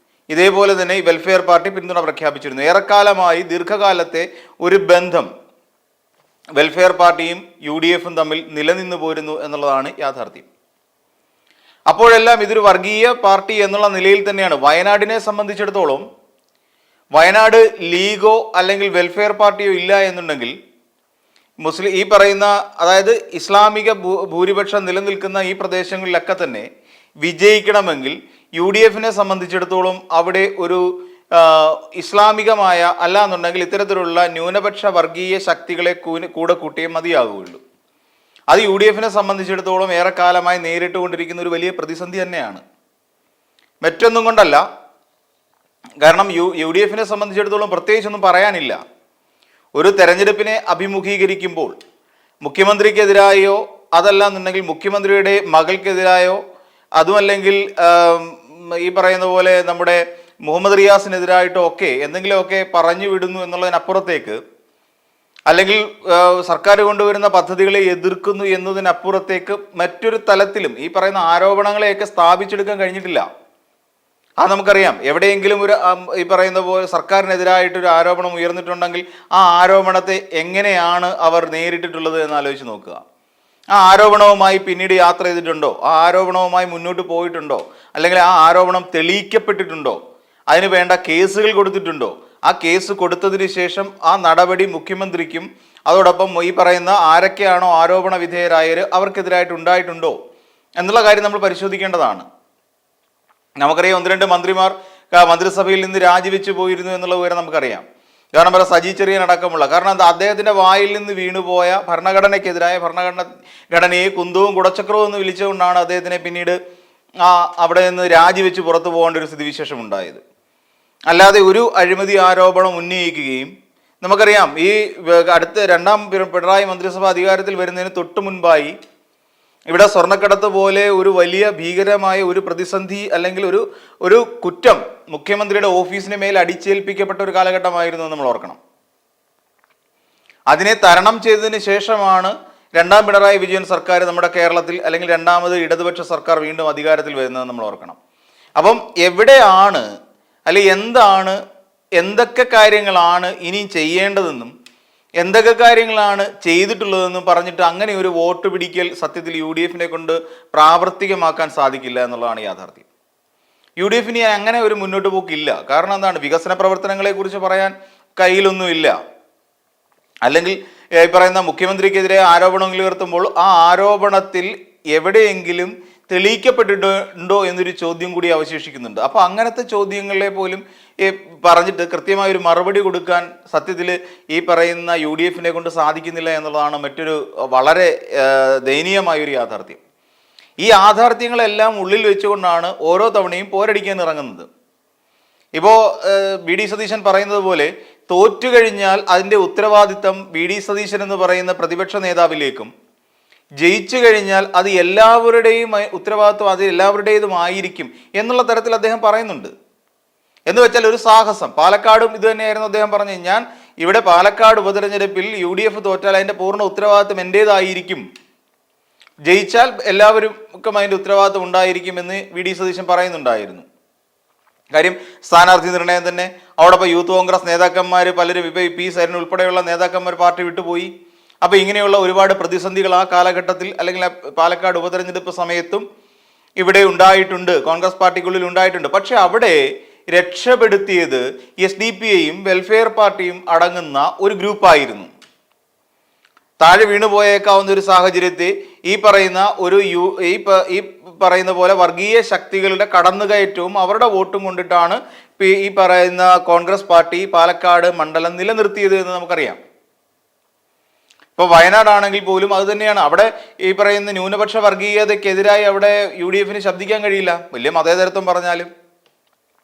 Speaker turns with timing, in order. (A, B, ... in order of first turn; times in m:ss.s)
0:00.3-0:05.3 A
0:06.6-0:10.5 A
0:11.9-0:16.0 A
0:17.2-0:20.5 A
0:21.6-0:26.7 A
0:27.2-0:37.6 A
0:38.5-0:42.6 A
0:43.8-0:44.6 A
0:46.0-0:48.8 A
0:49.8-0:51.7 A
0:52.4-0:56.4 A
0:57.0-1:04.4 A
1:05.5-1:13.2 A
1:14.4-1:23.0 A
1:23.7-1:30.0 A
1:30.5-1:40.2 A
1:40.8-1:42.2 A
1:43.6-1:47.8 A
1:48.4-1:56.6 A
1:57.2-2:00.2 A
2:01.1-2:03.5 A
2:04.0-2:08.7 A
2:09.7-2:18.6 A
2:20.5-2:28.0 A
2:28.6-2:29.8 A
2:30.5-2:31.4 A
2:32.0-2:34.5 A
2:35.2-2:42.8 A
2:43.8-2:48.9 A
2:50.2-3:09.8 A
3:10.6-3:14.5 A
3:15.6-3:22.7 A
3:23.6-3:29.5 A
3:30.5-3:38.0 A
3:39.3-3:43.6 A
3:44.7-3:50.9 A
3:51.4-3:55.8 A
3:56.6-3:59.6 A
4:00.1-4:05.1 A
4:06.6-4:19.6 A
4:21.4-4:28.7 A